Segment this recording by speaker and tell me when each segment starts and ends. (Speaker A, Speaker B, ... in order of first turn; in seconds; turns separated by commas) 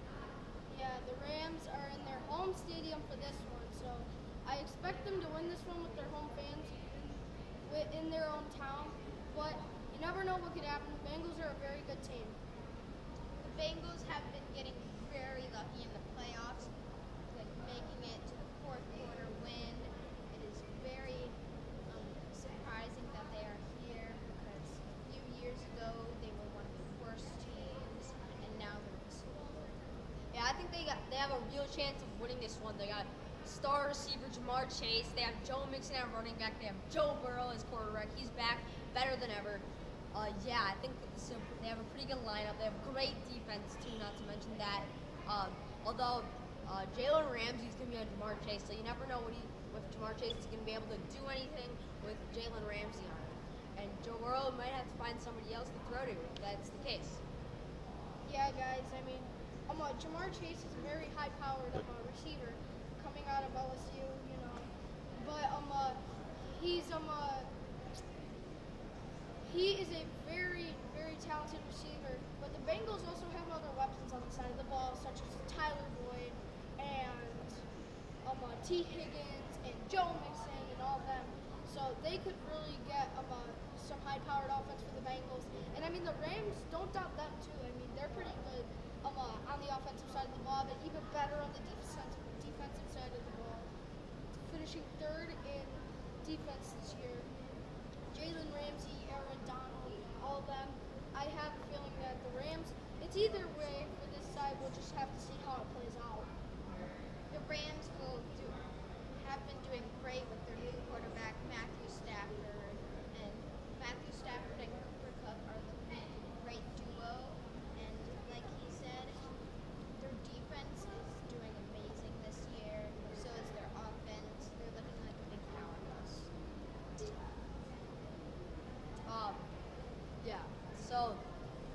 Speaker A: 0.7-12.4, Speaker B: 13.4-16.7, Speaker B: 17.3-29.8, Speaker C: 30.3-57.2, Speaker A: 58.2-67.5, Speaker A: 69.4-77.6, Speaker A: 78.2-93.7, Speaker A: 94.3-97.3, Speaker A: 98.1-106.3, Speaker B: 107.3-119.3, Speaker B: 120.0-126.3, Speaker C: 129.1-129.4, Speaker C: 130.2-131.2